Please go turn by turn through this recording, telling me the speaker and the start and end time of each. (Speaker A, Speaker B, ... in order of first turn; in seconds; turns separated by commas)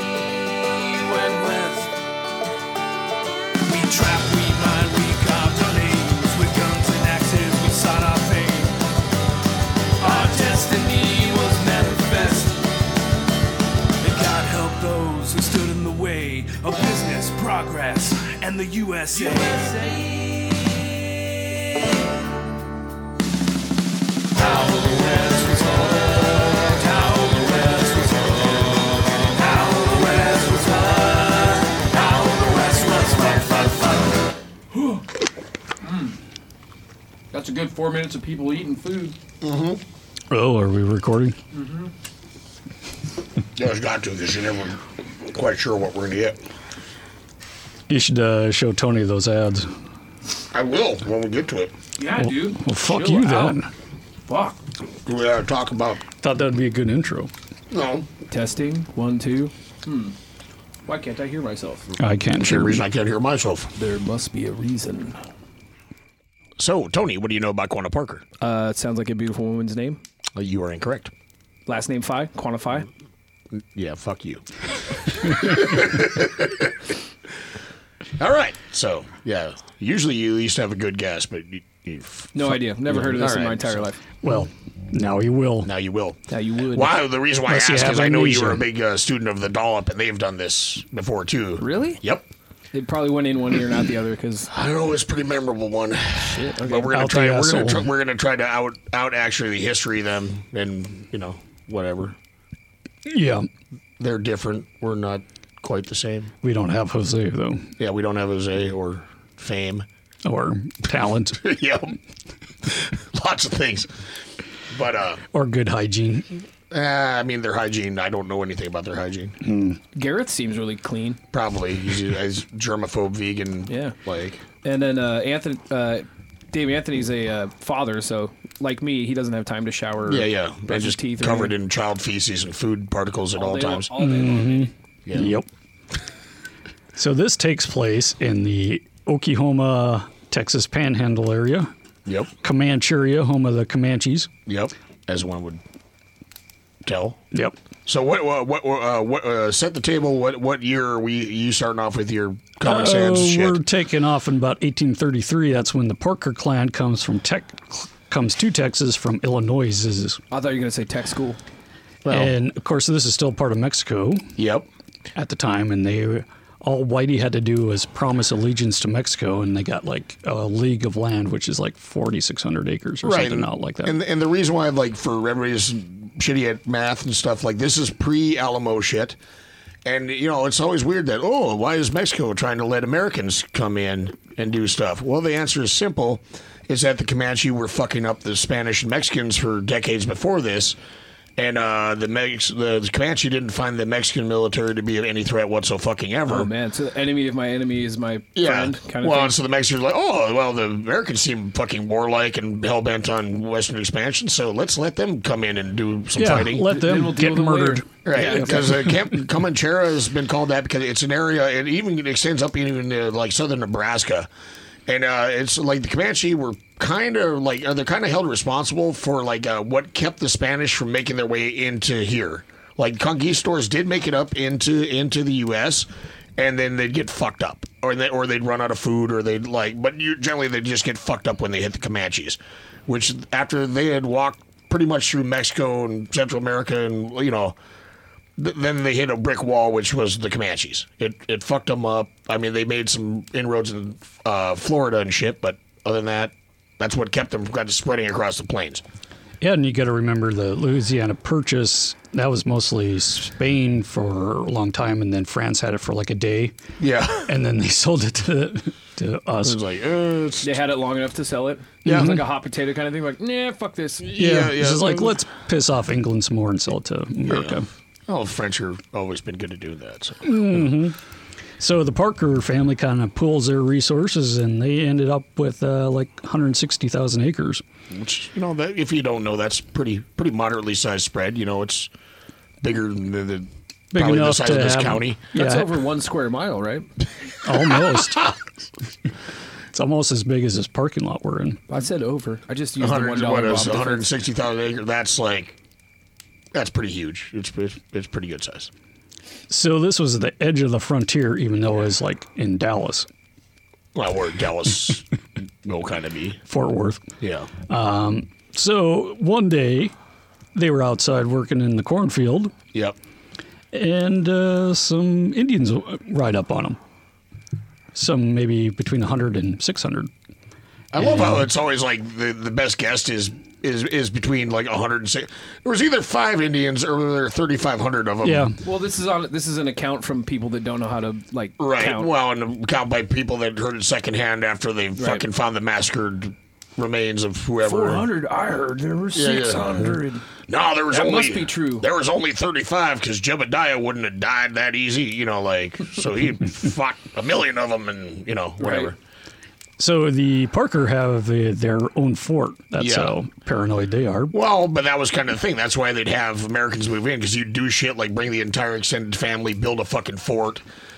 Speaker A: 0.4-1.9, Speaker A: 3.6-8.8, Speaker A: 10.0-12.6, Speaker A: 14.0-19.9, Speaker A: 24.4-26.1, Speaker A: 26.8-28.3, Speaker B: 27.4-28.5, Speaker B: 29.4-34.1, Speaker A: 29.6-30.7, Speaker B: 35.8-36.1, Speaker B: 37.3-39.1, Speaker C: 39.4-39.8, Speaker D: 40.3-41.4, Speaker B: 41.5-41.9, Speaker C: 43.5-44.8, Speaker C: 45.3-46.4, Speaker D: 47.9-49.7, Speaker C: 50.5-51.7, Speaker B: 52.0-53.6, Speaker D: 52.2-53.7, Speaker B: 54.2-54.6, Speaker C: 55.0-56.0, Speaker D: 56.2-57.3, Speaker C: 57.7-58.1, Speaker B: 58.3-60.1, Speaker B: 60.9-61.9, Speaker D: 62.0-62.8, Speaker C: 62.4-63.7, Speaker B: 63.8-65.2, Speaker C: 66.6-68.2, Speaker B: 68.4-70.0, Speaker C: 70.3-71.1, Speaker B: 71.7-72.9, Speaker C: 73.6-74.4, Speaker C: 75.1-76.7, Speaker C: 78.2-83.9, Speaker B: 82.3-84.0, Speaker D: 84.2-85.7, Speaker C: 85.6-86.2, Speaker B: 86.3-87.0, Speaker C: 86.7-92.3, Speaker D: 87.5-88.6, Speaker B: 91.6-92.0, Speaker B: 92.7-94.5, Speaker C: 94.5-102.2, Speaker B: 96.2-96.9, Speaker D: 96.9-97.9, Speaker D: 103.1-103.5, Speaker C: 104.0-106.3, Speaker D: 106.4-107.7, Speaker C: 107.8-109.8, Speaker D: 110.2-111.5, Speaker C: 111.4-111.9, Speaker C: 112.6-113.9, Speaker C: 114.7-115.2, Speaker D: 115.3-116.3, Speaker C: 116.7-119.4, Speaker D: 119.4-119.8, Speaker B: 119.9-121.2, Speaker C: 121.3-124.4, Speaker B: 123.7-124.0, Speaker B: 124.6-131.5, Speaker C: 130.1-134.2, Speaker B: 133.3-134.7, Speaker D: 134.0-135.5, Speaker C: 135.1-135.4, Speaker D: 136.9-141.7, Speaker D: 142.4-144.3, Speaker C: 144.5-145.6, Speaker C: 146.8-147.2, Speaker C: 147.8-153.6, Speaker D: 152.6-160.2, Speaker B: 160.3-161.4, Speaker C: 162.0-162.3, Speaker D: 162.1-164.4, Speaker C: 164.4-164.7, Speaker D: 165.1-173.9, Speaker C: 173.0-179.2, Speaker C: 179.8-190.8, Speaker C: 191.4-196.5, Speaker B: 196.3-199.4, Speaker C: 198.3-206.7, Speaker D: 206.1-209.1, Speaker B: 206.7-208.9, Speaker C: 208.1-214.3, Speaker C: 214.9-237.6, Speaker C: 238.4-248.8, Speaker D: 249.4-256.5, Speaker C: 256.8-257.3, Speaker D: 257.2-259.6, Speaker C: 259.4-260.5, Speaker B: 260.4-264.0, Speaker C: 261.8-262.1, Speaker D: 261.8-262.2, Speaker C: 264.0-265.1, Speaker D: 264.1-267.6, Speaker C: 267.3-270.7, Speaker D: 270.2-271.0, Speaker D: 271.6-277.6, Speaker C: 277.9-281.9, Speaker C: 282.6-285.2, Speaker D: 283.9-285.7, Speaker B: 285.3-286.9, Speaker D: 287.4-288.3, Speaker D: 289.7-291.6, Speaker B: 291.7-294.1, Speaker C: 292.8-295.6, Speaker C: 296.5-298.7, Speaker D: 299.5-303.1, Speaker C: 303.9-305.0, Speaker C: 305.6-306.4, Speaker D: 306.5-307.1, Speaker C: 307.2-307.5, Speaker D: 307.7-309.9, Speaker D: 310.5-312.5, Speaker D: 313.7-316.8, Speaker D: 317.9-320.1, Speaker C: 320.9-328.5, Speaker D: 321.0-321.4, Speaker D: 328.2-328.6, Speaker B: 328.6-332.1, Speaker C: 331.6-338.1, Speaker B: 334.9-335.2, Speaker B: 337.6-340.2, Speaker C: 339.1-348.9, Speaker B: 340.9-341.9, Speaker B: 348.6-348.9, Speaker D: 349.8-354.3, Speaker C: 352.8-353.1, Speaker C: 354.3-360.6